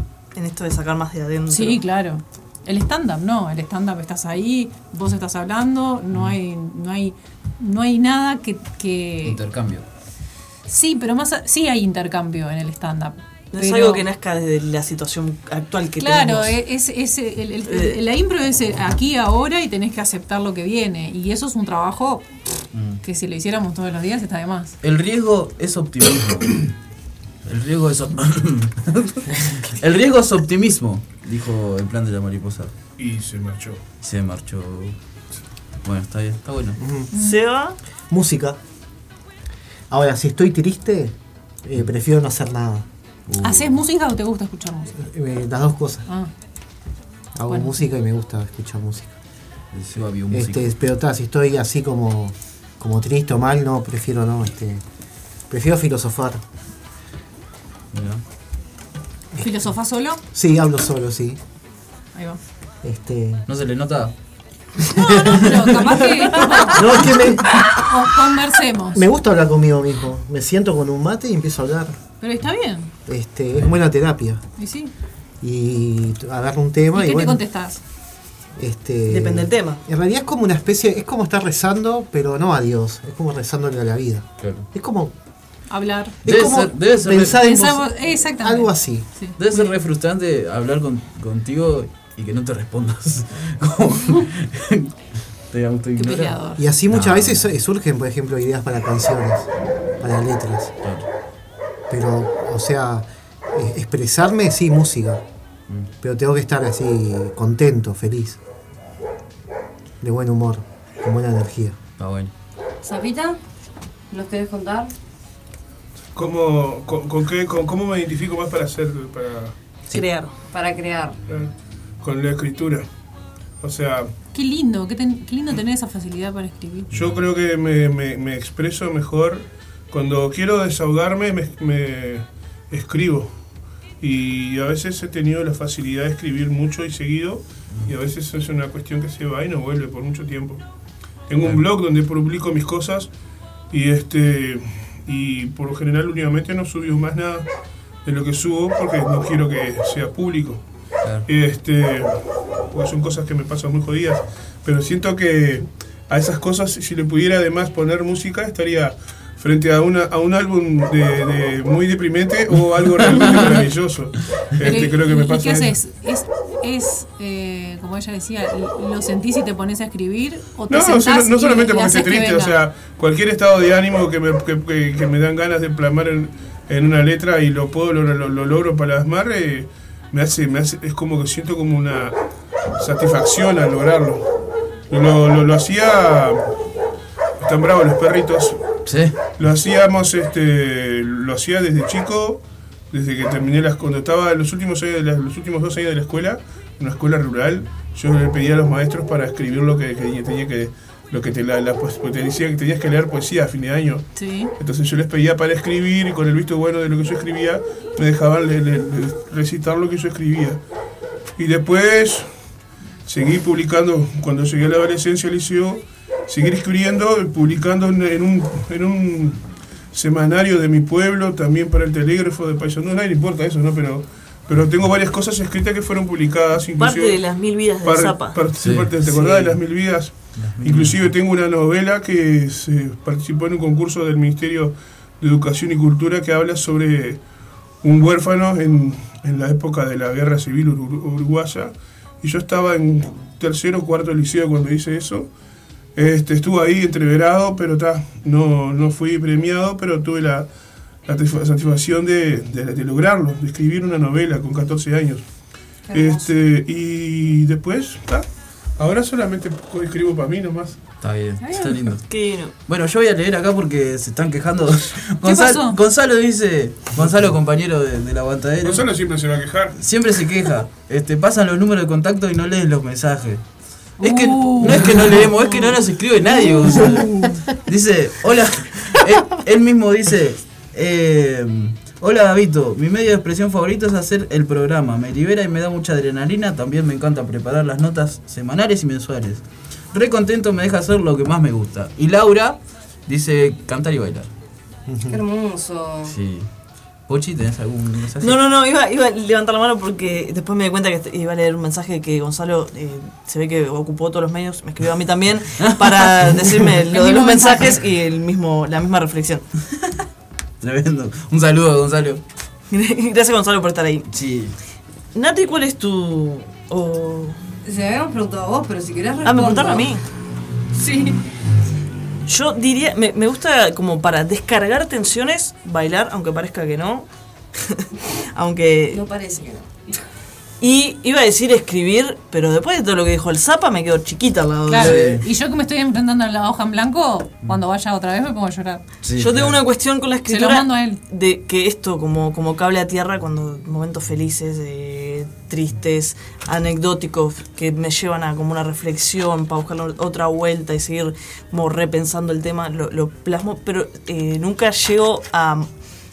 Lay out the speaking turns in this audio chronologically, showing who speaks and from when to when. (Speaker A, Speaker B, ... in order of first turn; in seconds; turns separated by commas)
Speaker A: 0.3-1.8, Speaker B: 1.5-9.4, Speaker C: 9.2-9.9, Speaker B: 10.7-14.1, Speaker A: 13.5-16.6, Speaker B: 16.0-22.3, Speaker A: 17.7-18.0, Speaker C: 22.7-23.0, Speaker B: 23.0-24.8, Speaker C: 24.8-26.7, Speaker C: 27.4-32.7, Speaker D: 33.0-33.8, Speaker C: 34.0-35.0, Speaker C: 35.8-36.8, Speaker E: 36.8-37.1, Speaker B: 37.1-37.4, Speaker A: 37.1-37.8, Speaker E: 38.1-38.6, Speaker E: 39.9-42.9, Speaker C: 43.3-43.8, Speaker B: 43.4-45.0, Speaker E: 45.0-46.1, Speaker E: 47.4-49.2, Speaker B: 47.5-47.9, Speaker C: 49.7-50.7, Speaker E: 50.3-54.8, Speaker E: 55.5-56.4, Speaker C: 57.9-58.2, Speaker B: 59.4-60.2, Speaker E: 60.3-61.4, Speaker B: 62.1-62.4, Speaker E: 62.8-63.5, Speaker C: 63.5-64.1, Speaker B: 64.9-69.0, Speaker E: 64.9-67.8, Speaker E: 69.0-72.0, Speaker B: 72.2-72.9, Speaker E: 73.1-74.4, Speaker B: 74.6-74.9, Speaker E: 75.4-77.5, Speaker B: 77.0-77.8, Speaker E: 78.6-85.1, Speaker A: 79.1-79.8, Speaker C: 84.4-84.7, Speaker B: 85.7-86.2, Speaker C: 86.2-87.5, Speaker E: 86.2-89.1, Speaker B: 87.3-89.7, Speaker C: 89.4-95.0, Speaker C: 95.5-97.5, Speaker B: 96.0-96.6, Speaker E: 96.6-99.5, Speaker E: 100.0-100.8, Speaker E: 101.9-105.2, Speaker E: 106.0-108.4, Speaker E: 110.0-111.8, Speaker C: 112.0-112.3, Speaker F: 112.8-113.4, Speaker F: 114.1-114.9, Speaker D: 116.2-119.5, Speaker A: 119.9-120.3, Speaker F: 120.5-121.2, Speaker D: 121.3-122.9, Speaker D: 123.6-124.1, Speaker B: 124.3-126.9, Speaker C: 126.9-127.2, Speaker D: 126.9-133.3, Speaker D: 134.0-140.6, Speaker D: 141.3-143.1, Speaker D: 143.7-147.5, Speaker D: 148.1-150.6, Speaker D: 151.3-152.2, Speaker D: 152.7-165.8, Speaker C: 163.0-163.7, Speaker B: 164.6-172.6, Speaker D: 170.7-182.2, Speaker D: 182.8-184.2, Speaker D: 184.9-186.4, Speaker D: 187.4-188.6, Speaker C: 188.8-189.2, Speaker D: 189.4-204.1, Speaker B: 204.2-204.5, Speaker D: 204.6-210.6, Speaker D: 211.4-212.3, Speaker D: 213.1-219.4, Speaker D: 219.9-227.2, Speaker A: 226.8-228.5, Speaker D: 227.8-237.2, Speaker C: 228.5-229.5, Speaker A: 229.0-229.5, Speaker C: 230.3-231.1, Speaker D: 237.8-245.3, Speaker D: 246.0-250.5, Speaker D: 251.1-255.2, Speaker F: 255.9-256.3, Speaker D: 255.9-258.2, Speaker D: 258.8-260.8, Speaker C: 261.0-262.1, Speaker B: 261.4-261.9, Speaker A: 262.1-262.5, Speaker C: 262.6-268.9, Speaker B: 265.2-265.8, Speaker D: 268.6-269.8, Speaker C: 269.8-273.4, Speaker C: 274.0-294.3, Speaker B: 274.0-275.7, Speaker B: 276.4-277.4, Speaker E: 294.9-295.2, Speaker F: 295.1-296.2, Speaker C: 296.1-296.5, Speaker C: 297.1-298.4, Speaker A: 298.2-309.4, Speaker C: 305.6-306.6, Speaker B: 306.9-307.8, Speaker C: 310.6-312.2, Speaker A: 312.7-314.1, Speaker C: 314.1-314.5, Speaker A: 315.1-317.4, Speaker F: 317.6-320.0, Speaker A: 319.2-320.0, Speaker F: 320.7-321.2, Speaker A: 322.3-327.1, Speaker A: 327.6-329.0, Speaker F: 328.9-329.7, Speaker A: 330.6-335.2, Speaker B: 334.7-338.8, Speaker C: 334.7-335.3, Speaker C: 339.0-339.6, Speaker A: 339.2-355.7, Speaker B: 340.3-341.0